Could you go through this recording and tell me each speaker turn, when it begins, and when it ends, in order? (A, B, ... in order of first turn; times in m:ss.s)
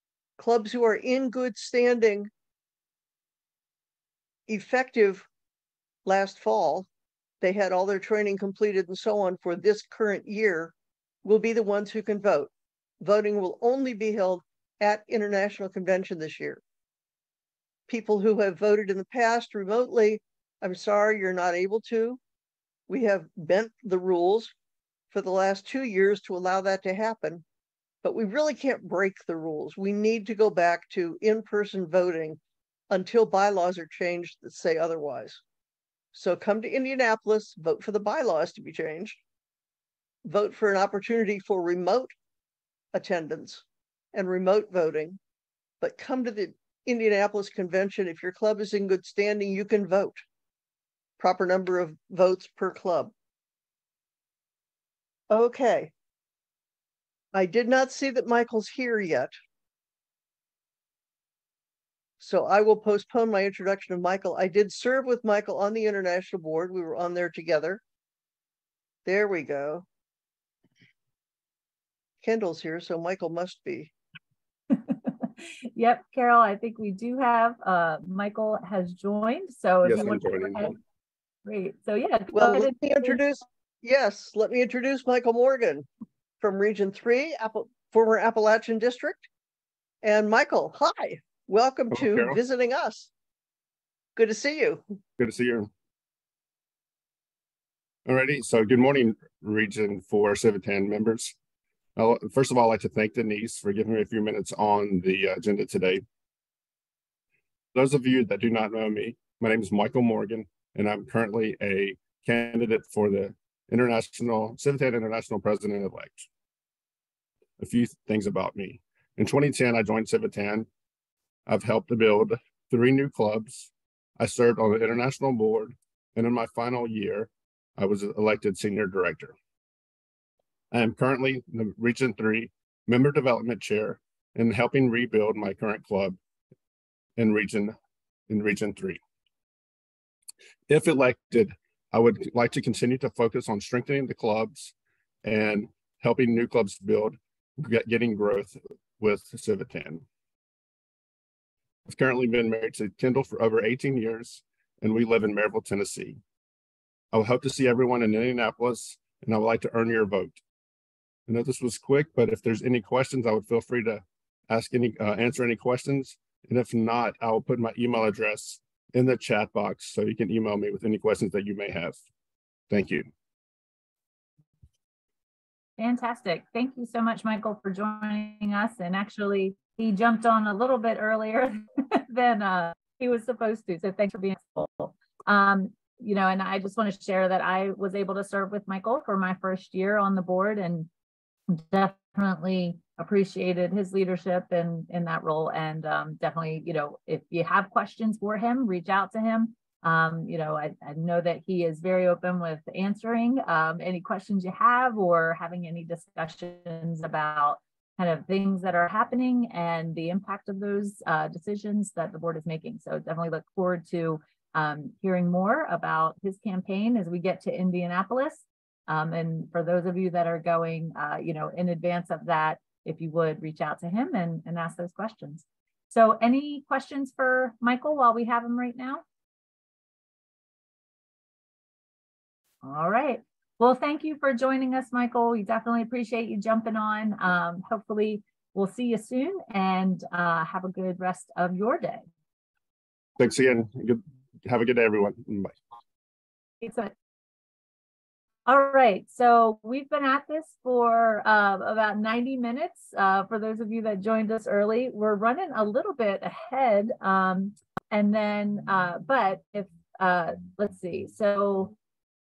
0:00.4-0:02.3 A
0:04.5-0:05.3 A
0:06.0-0:06.9 A
0:07.4-0:10.7 A
0:11.2-0:16.6 A
0:17.9-0:22.2 A
0:22.9-0:24.5 A
0:25.1-0:27.4 A
0:28.0-0:32.4 A
0:32.9-0:35.4 A
0:36.1-0:39.2 A
0:40.2-0:42.1 A
0:42.9-0:45.2 A
0:45.8-0:50.2 A
0:51.2-0:53.1 A
0:55.3-0:55.9 A
0:57.3-0:59.4 A
1:02.2-1:07.8 A
1:09.1-1:09.8 A
1:12.2-1:13.9 A
1:14.7-1:20.8 B
1:19.8-1:20.7 C
1:21.4-1:23.2 B
1:22.3-1:25.9 A
1:26.4-1:29.2 A
1:30.0-1:33.1 A
1:32.0-1:32.4 C
1:34.2-1:34.8 A
1:35.2-1:35.7 C
1:38.1-1:41.3 C
1:42.0-1:46.0 C
1:47.8-1:56.3 C
1:57.6-2:00.7 C
2:01.5-2:09.4 C
2:10.7-2:16.2 C
2:17.2-2:17.8 C
2:18.3-2:19.0 C
2:20.7-2:24.7 C
2:25.2-2:30.0 C
2:31.9-2:36.2 C
2:37.1-2:40.4 C
2:41.3-2:52.0 C
2:52.7-2:53.1 C
2:55.8-3:10.9 B
3:11.5-3:49.0 B
3:52.6-4:02.1 B
4:03.2-4:05.6 C
4:06.6-4:06.9 B
4:08.5-4:21.8 B